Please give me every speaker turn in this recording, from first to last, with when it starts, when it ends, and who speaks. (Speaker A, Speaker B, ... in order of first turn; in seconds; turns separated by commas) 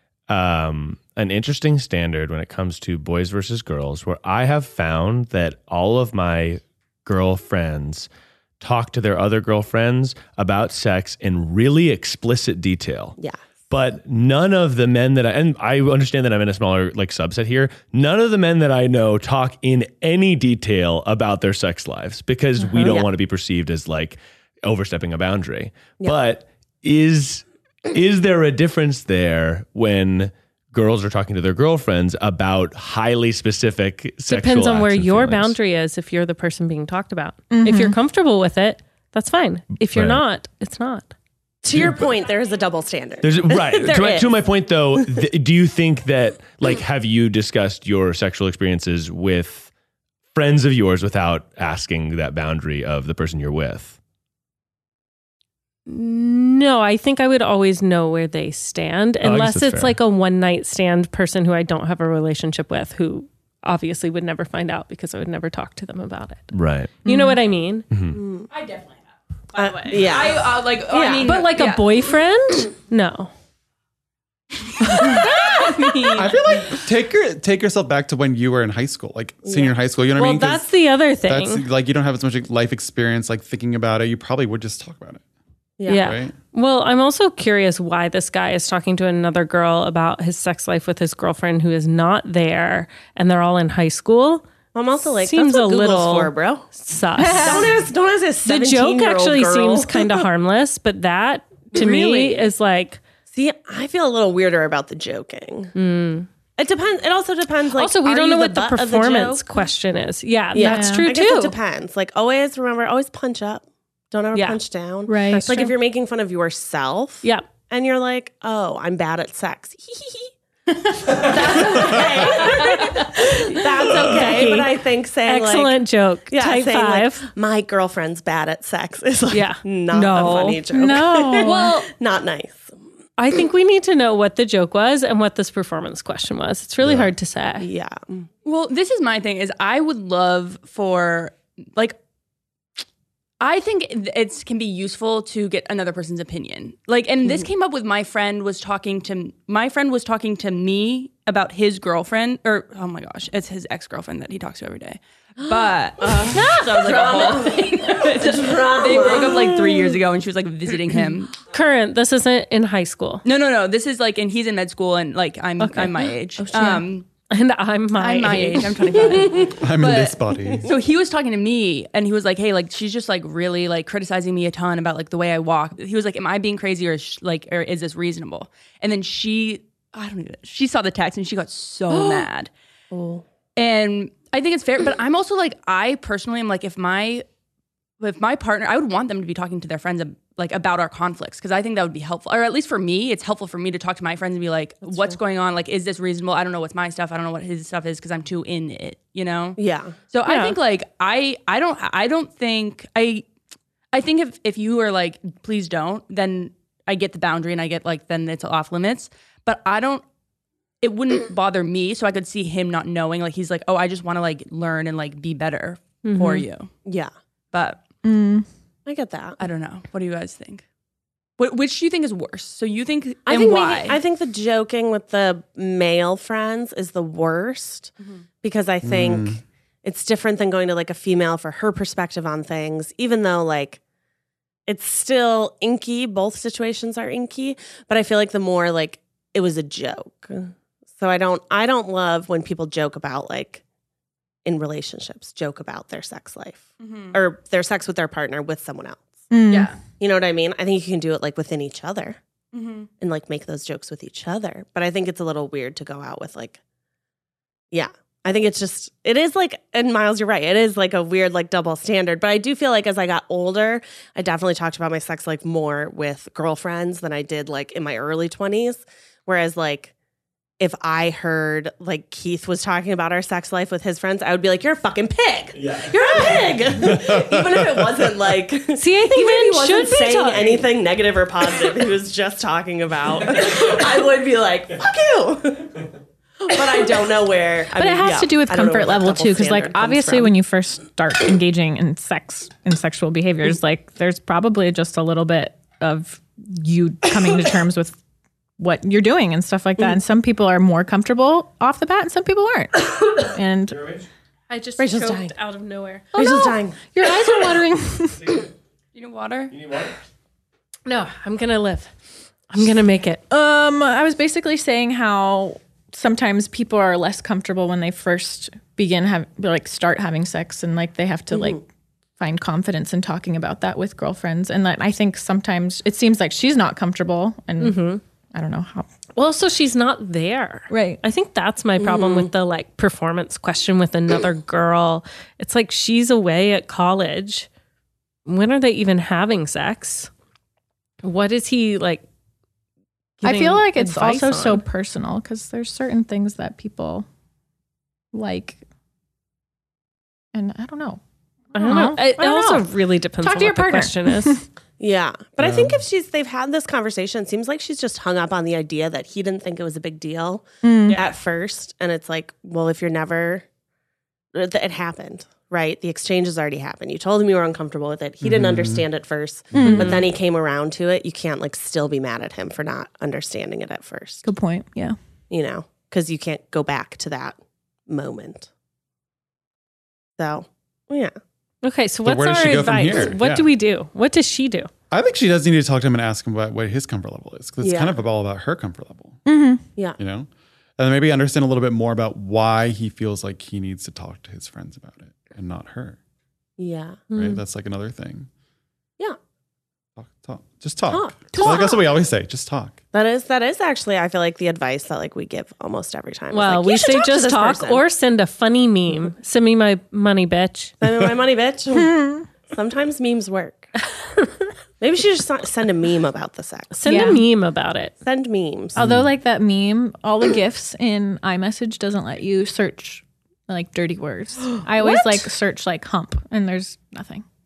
Speaker A: 0.3-8.1, Speaker A: 8.6-13.2, Speaker A: 13.7-35.5, Speaker B: 22.7-23.1, Speaker C: 34.3-41.1, Speaker D: 37.5-38.0, Speaker A: 39.9-40.2, Speaker B: 41.6-44.4, Speaker A: 41.7-42.1, Speaker A: 43.2-49.7, Speaker A: 50.3-54.0, Speaker C: 55.9-66.5, Speaker A: 59.2-60.0, Speaker A: 66.5-67.0, Speaker C: 67.0-67.9, Speaker D: 67.0-67.4, Speaker A: 67.9-68.2, Speaker B: 68.1-68.5, Speaker E: 68.5-69.0, Speaker E: 69.5-71.9, Speaker B: 69.5-71.4, Speaker C: 71.2-73.3, Speaker E: 74.8-76.4, Speaker C: 74.9-75.3, Speaker F: 76.1-80.7, Speaker B: 79.5-79.7, Speaker C: 80.2-81.6, Speaker F: 81.2-85.2, Speaker B: 85.8-86.1, Speaker C: 85.9-94.5, Speaker F: 85.9-86.3, Speaker B: 94.7-96.7, Speaker C: 95.1-97.8, Speaker D: 97.2-97.7, Speaker B: 97.3-100.2, Speaker C: 98.4-103.0, Speaker B: 101.7-102.5, Speaker B: 103.3-105.7, Speaker C: 105.7-106.3, Speaker B: 106.6-109.4, Speaker C: 107.7-111.5, Speaker B: 110.5-120.3, Speaker D: 110.6-111.1, Speaker C: 114.3-114.6, Speaker D: 115.1-115.6, Speaker C: 115.3-115.7, Speaker B: 121.0-132.7, Speaker C: 122.6-124.7, Speaker C: 125.2-127.3, Speaker C: 129.3-130.6, Speaker D: 130.7-131.7, Speaker C: 131.4-131.7, Speaker C: 133.2-137.7, Speaker F: 136.8-137.1, Speaker B: 137.6-138.3, Speaker E: 138.4-141.9, Speaker E: 143.4-161.3, Speaker B: 155.5-160.0, Speaker C: 161.5-163.2, Speaker E: 163.2-167.1, Speaker D: 165.6-166.8, Speaker C: 167.3-169.2, Speaker E: 167.9-182.5, Speaker B: 169.2-169.4, Speaker F: 169.6-170.7, Speaker B: 181.9-182.3, Speaker B: 182.9-183.2, Speaker E: 183.6-187.2, Speaker E: 188.0-199.6, Speaker B: 194.8-195.2, Speaker B: 199.6-199.9, Speaker E: 200.1-203.2, Speaker C: 200.2-200.6, Speaker E: 203.9-210.0, Speaker E: 210.8-216.7, Speaker C: 216.0-216.5, Speaker B: 216.8-217.1, Speaker E: 217.5-217.8, Speaker D: 218.0-218.4, Speaker B: 218.8-219.4, Speaker E: 219.4-220.6, Speaker E: 221.4-224.0, Speaker B: 223.2-233.8, Speaker F: 228.8-229.4, Speaker B: 234.7-243.6, Speaker B: 244.4-249.2, Speaker E: 246.8-247.2, Speaker D: 249.3-249.7, Speaker E: 249.5-249.8, Speaker B: 250.0-252.2, Speaker E: 252.5-252.9, Speaker B: 253.0-256.6, Speaker B: 257.7-269.9, Speaker B: 270.6-285.8, Speaker A: 275.6-276.4, Speaker F: 276.8-277.9, Speaker C: 278.8-280.7, Speaker B: 286.4-290.3, Speaker D: 287.8-298.0, Speaker D: 298.6-303.8, Speaker A: 303.7-304.1, Speaker C: 304.5-306.1, Speaker B: 304.8-305.3, Speaker D: 306.1-308.4, Speaker B: 306.1-306.8, Speaker E: 308.9-309.5, Speaker A: 309.5-309.9, Speaker C: 310.9-311.9, Speaker C: 312.5-313.2, Speaker D: 313.3-321.6, Speaker B: 321.3-321.6, Speaker D: 322.2-327.8, Speaker C: 327.6-328.0, Speaker D: 328.3-328.9, Speaker C: 329.1-337.5, Speaker D: 330.7-331.0, Speaker B: 331.8-332.3, Speaker C: 338.2-340.1, Speaker C: 341.0-342.0, Speaker C: 343.2-344.6, Speaker D: 343.2-347.1, Speaker D: 348.1-348.6, Speaker D: 350.3-351.0, Speaker C: 351.5-354.4, Speaker D: 351.5-352.6, Speaker D: 353.2-354.4, Speaker B: 354.8-363.4, Speaker F: 355.4-355.8, Speaker D: 360.6-361.0, Speaker B: 364.3-374.2, Speaker F: 368.2-368.8, Speaker F: 369.5-369.9, Speaker D: 369.6-369.9, Speaker D: 374.2-374.9, Speaker B: 375.3-377.4, Speaker B: 377.9-378.5, Speaker B: 380.2-381.1, Speaker C: 381.6-384.7, Speaker F: 382.0-383.5, Speaker F: 384.9-389.2, Speaker B: 387.6-387.9, Speaker D: 389.2-389.6, Speaker F: 390.0-396.0, Speaker B: 396.6-397.0, Speaker C: 397.1-397.4, Speaker F: 397.1-398.3, Speaker F: 400.0-402.8, Speaker B: 400.9-401.8, Speaker B: 402.9-407.8, Speaker C: 406.3-410.7, Speaker B: 410.8-413.8, Speaker D: 411.7-412.2, Speaker B: 414.8-417.1, Speaker C: 416.7-417.9, Speaker D: 416.9-417.2, Speaker B: 418.0-418.8, Speaker F: 418.8-419.1, Speaker D: 418.8-427.2, Speaker B: 424.8-425.2